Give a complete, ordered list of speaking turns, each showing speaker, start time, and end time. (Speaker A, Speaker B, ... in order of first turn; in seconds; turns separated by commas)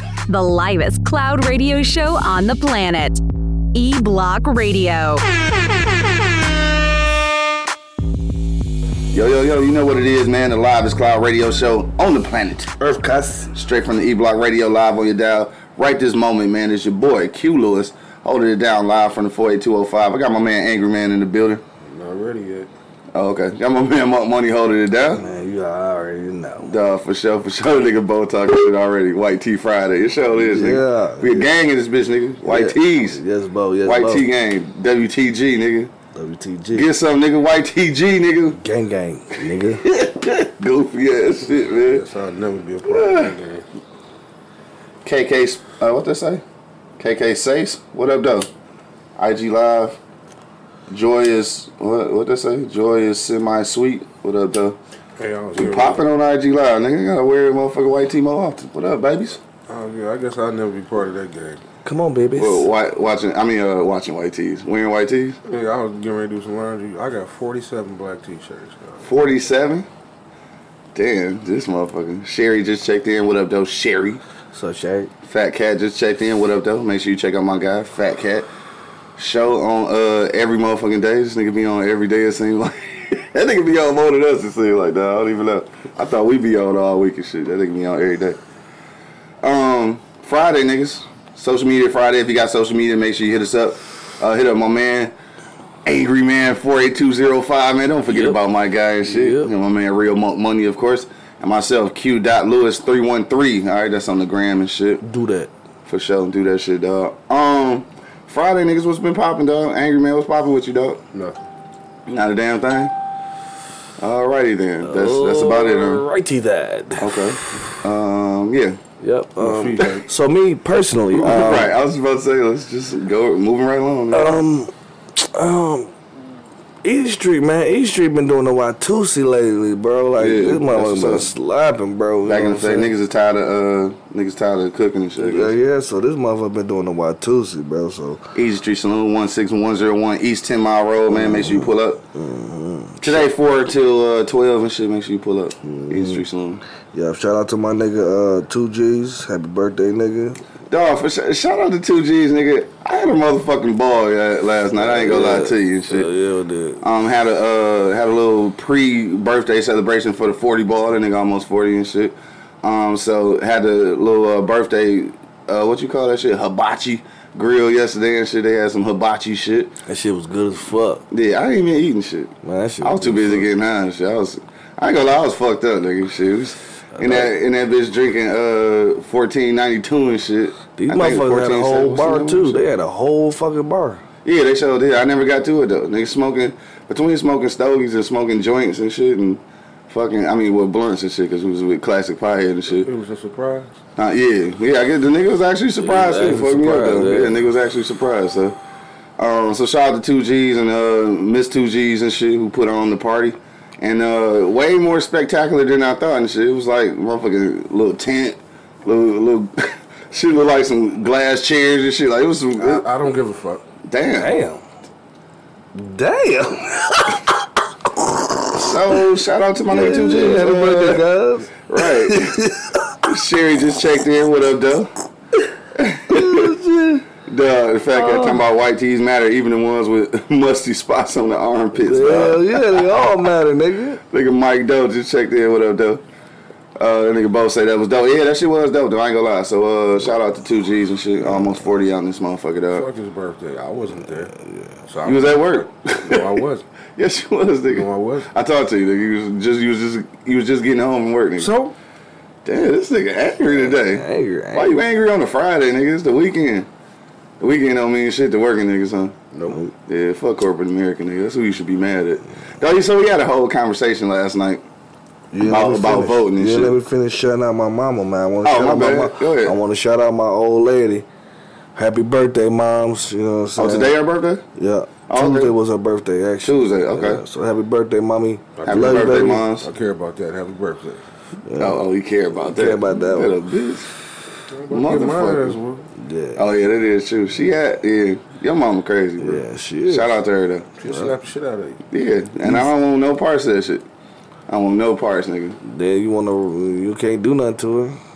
Speaker A: 0.3-3.2, Speaker A: 3.7-5.2, Speaker B: 9.1-12.7, Speaker C: 12.8-13.5, Speaker B: 13.5-21.6, Speaker D: 21.8-22.7, Speaker B: 23.1-25.2, Speaker C: 25.1-26.7, Speaker B: 26.6-33.2, Speaker C: 30.4-31.5, Speaker C: 32.4-34.2, Speaker B: 33.8-35.9, Speaker C: 36.1-36.9, Speaker B: 36.7-38.6, Speaker C: 38.5-39.8, Speaker B: 39.3-42.0, Speaker D: 41.8-43.6, Speaker B: 42.9-43.3, Speaker B: 45.0-46.4, Speaker B: 47.0-48.5, Speaker B: 49.2-50.0, Speaker B: 50.9-54.8, Speaker D: 55.2-56.0, Speaker B: 55.5-59.4, Speaker D: 59.7-61.6, Speaker C: 61.8-62.6, Speaker B: 62.4-65.4, Speaker D: 65.4-69.1, Speaker B: 69.0-69.9, Speaker B: 70.9-74.2, Speaker C: 74.5-75.1, Speaker B: 75.2-78.5, Speaker B: 79.2-88.4, Speaker B: 89.4-95.1, Speaker B: 95.8-105.0, Speaker C: 98.1-98.4, Speaker C: 99.0-99.5, Speaker C: 105.0-105.5, Speaker B: 105.8-111.0, Speaker D: 111.1-111.4, Speaker B: 112.1-112.9, Speaker B: 114.0-116.0, Speaker C: 114.8-117.6, Speaker B: 117.0-118.8, Speaker C: 119.0-121.7, Speaker D: 119.4-120.1, Speaker B: 121.1-124.3, Speaker C: 124.1-125.9, Speaker C: 126.8-132.9, Speaker B: 130.2-131.3, Speaker B: 132.2-135.5, Speaker C: 135.2-138.2, Speaker B: 138.3-142.0, Speaker C: 141.1-143.3, Speaker B: 143.0-146.6, Speaker C: 145.6-146.2, Speaker C: 146.9-150.4, Speaker B: 150.7-156.1, Speaker C: 154.8-156.8, Speaker B: 156.8-169.7, Speaker C: 169.8-171.0, Speaker B: 171.1-182.6, Speaker C: 172.4-173.5, Speaker C: 176.9-177.3, Speaker C: 180.8-184.0, Speaker B: 184.2-192.9, Speaker D: 192.7-193.7, Speaker B: 194.0-198.6, Speaker C: 195.8-197.4, Speaker B: 199.2-212.8, Speaker D: 212.6-213.6, Speaker B: 213.8-214.3, Speaker C: 214.1-214.6, Speaker C: 215.7-217.4, Speaker C: 218.0-219.0, Speaker B: 218.6-221.0, Speaker C: 219.7-222.9, Speaker B: 221.7-222.4, Speaker B: 223.0-224.9, Speaker B: 225.7-226.5, Speaker C: 226.1-227.0, Speaker B: 227.2-232.9, Speaker C: 227.9-228.4, Speaker C: 231.8-234.0, Speaker B: 234.1-236.0, Speaker B: 236.8-242.8, Speaker D: 242.7-244.3, Speaker C: 244.4-244.7, Speaker D: 244.9-246.6, Speaker B: 245.0-246.4, Speaker B: 247.0-251.5, Speaker D: 247.7-248.3, Speaker D: 251.4-251.7, Speaker B: 252.4-256.7, Speaker C: 253.5-254.8, Speaker B: 257.4-259.2, Speaker C: 259.5-259.7, Speaker B: 259.9-264.6, Speaker C: 265.3-271.1, Speaker B: 265.4-266.8, Speaker B: 268.4-269.6, Speaker C: 271.7-273.9, Speaker B: 273.6-274.4, Speaker C: 274.6-279.5, Speaker B: 275.1-275.5, Speaker B: 276.4-277.2, Speaker D: 278.6-281.0, Speaker B: 278.6-279.7, Speaker C: 281.5-281.8, Speaker B: 281.6-283.9, Speaker C: 282.5-283.4, Speaker D: 284.5-285.9, Speaker B: 284.7-285.6, Speaker C: 286.0-286.4, Speaker B: 286.4-290.7, Speaker C: 289.2-290.1, Speaker D: 290.8-291.8, Speaker C: 290.8-291.1, Speaker B: 291.9-293.8, Speaker B: 294.5-295.6, Speaker C: 295.6-298.0